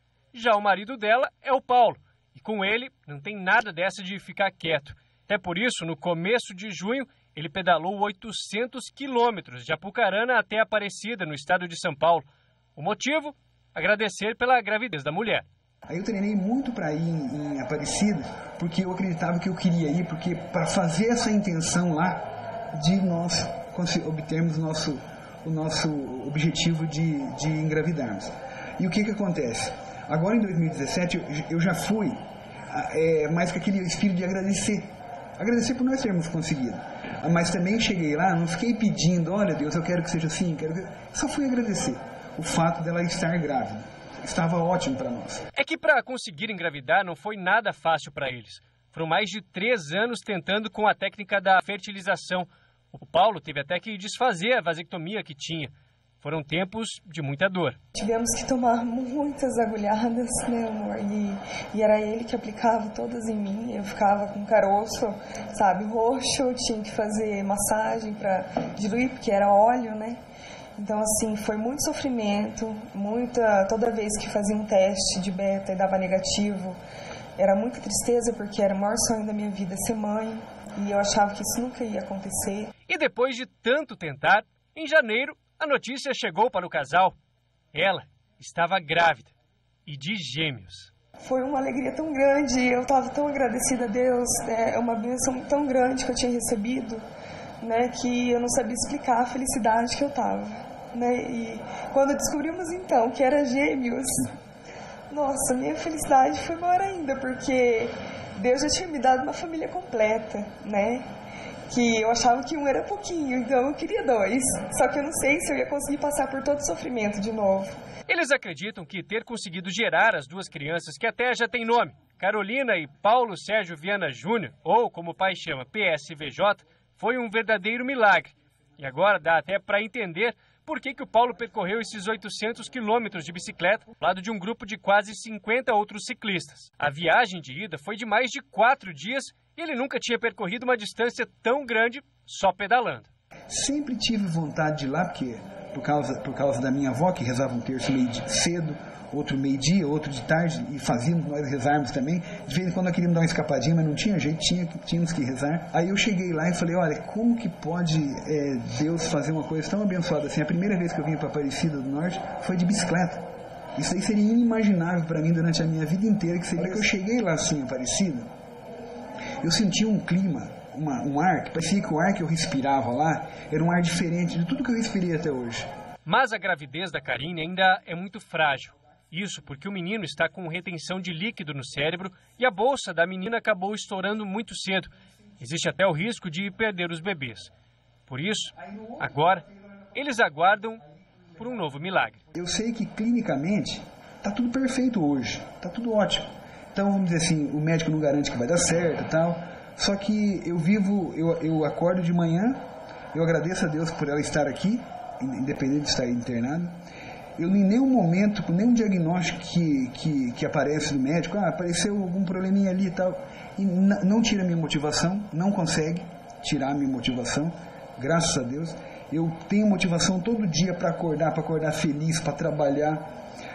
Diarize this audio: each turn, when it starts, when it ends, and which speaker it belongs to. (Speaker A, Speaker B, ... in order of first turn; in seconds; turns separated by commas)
Speaker A: 0.3-15.4, Speaker B: 15.9-32.2, Speaker B: 32.7-34.9, Speaker B: 35.4-45.4, Speaker A: 45.5-57.8, Speaker C: 58.0-70.2, Speaker C: 70.8-76.8, Speaker C: 77.4-82.7, Speaker A: 82.9-87.2, Speaker A: 87.7-89.3, Speaker A: 89.8-90.9, Speaker C: 91.2-97.0, Speaker C: 97.6-104.3, Speaker C: 105.1-111.0, Speaker C: 111.7-117.8, Speaker A: 118.1-143.1, Speaker B: 143.5-163.2, Speaker B: 163.8-168.3, Speaker B: 169.4-175.7, Speaker A: 176.1-187.5, Speaker A: 188.1-190.8, Speaker A: 191.3-192.2, Speaker B: 192.3-202.6, Speaker B: 203.1-206.7, Speaker B: 207.4-223.0